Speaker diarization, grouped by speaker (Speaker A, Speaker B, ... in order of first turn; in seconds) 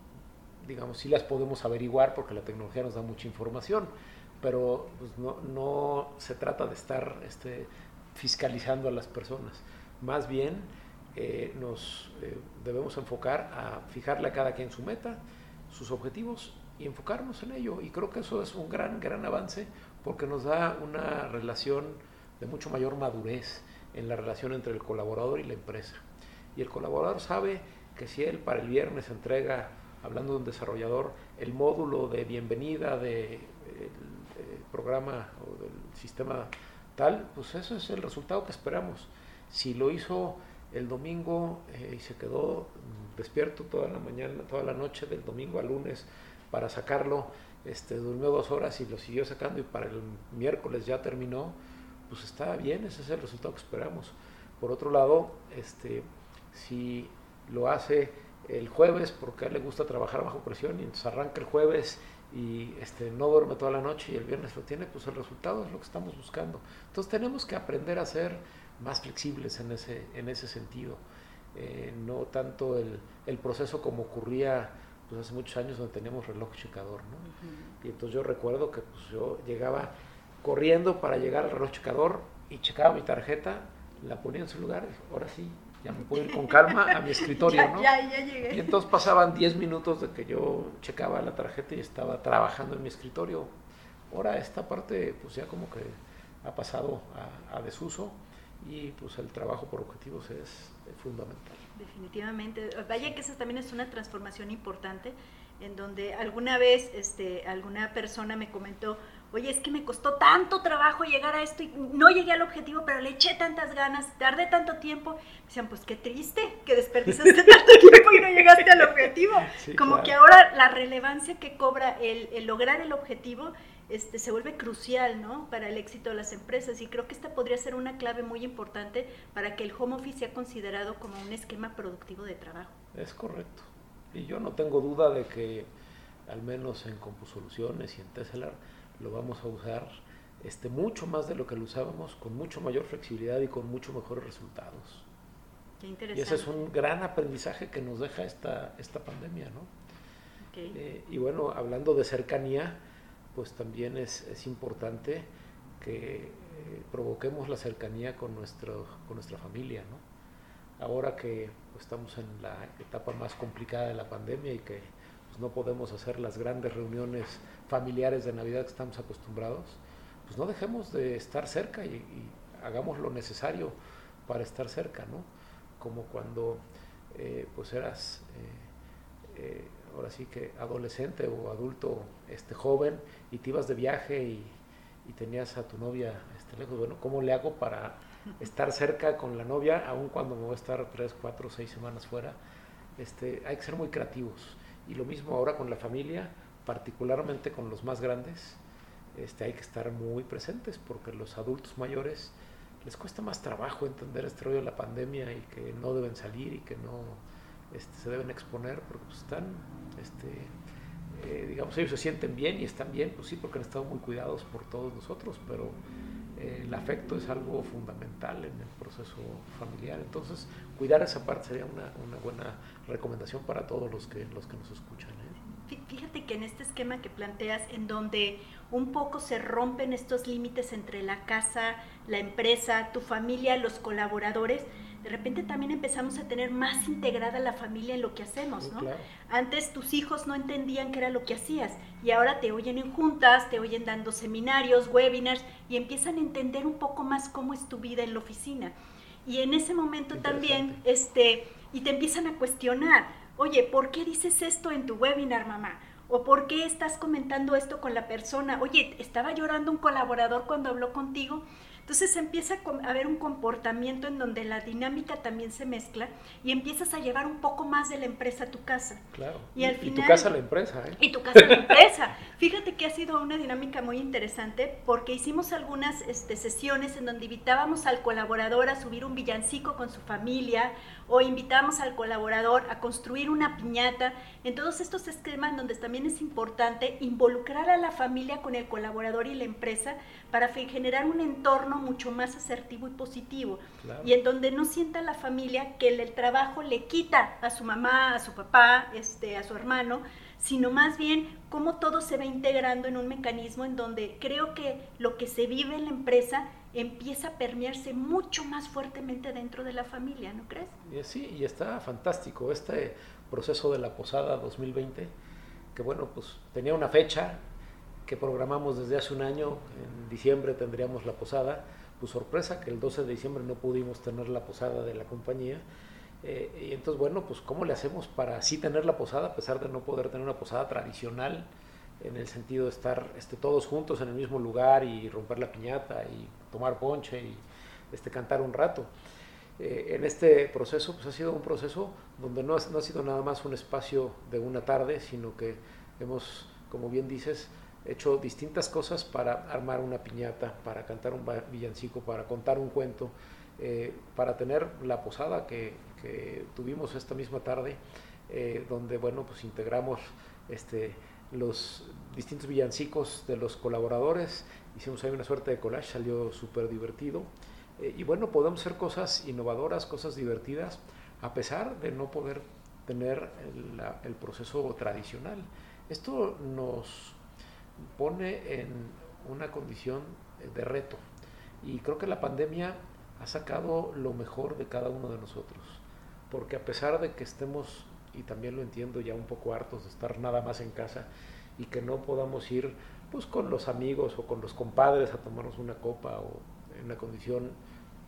Speaker A: 0.6-26.0, 26.6-51.6, 52.1-71.0, 71.5-77.3, 77.8-79.9, 80.4-87.9, 88.5-93.5, 94.1-101.6, 119.5-120.2, 132.9-135.7, 136.3-145.1, 146.1-149.7, 150.7-152.8, 153.3-160.0, 160.8-178.7, 179.3-192.4, 193.0-198.6, 199.1-210.6, 211.1-215.8, 216.3-225.4, 238.6-239.1, 250.1-250.8, 269.1-271.8, 293.8-294.1, 310.9-315.1, 315.7-317.4, 318.1-325.6, 326.2-331.5, 332.0-338.9, 339.6-377.2, 377.8-381.0, 381.6-397.6
Speaker B: 77.2-77.8, 86.3-88.8, 101.8-132.8, 145.8-146.5, 150.4-150.8, 225.5-248.7, 249.2-269.0, 269.6-270.3, 271.0-310.7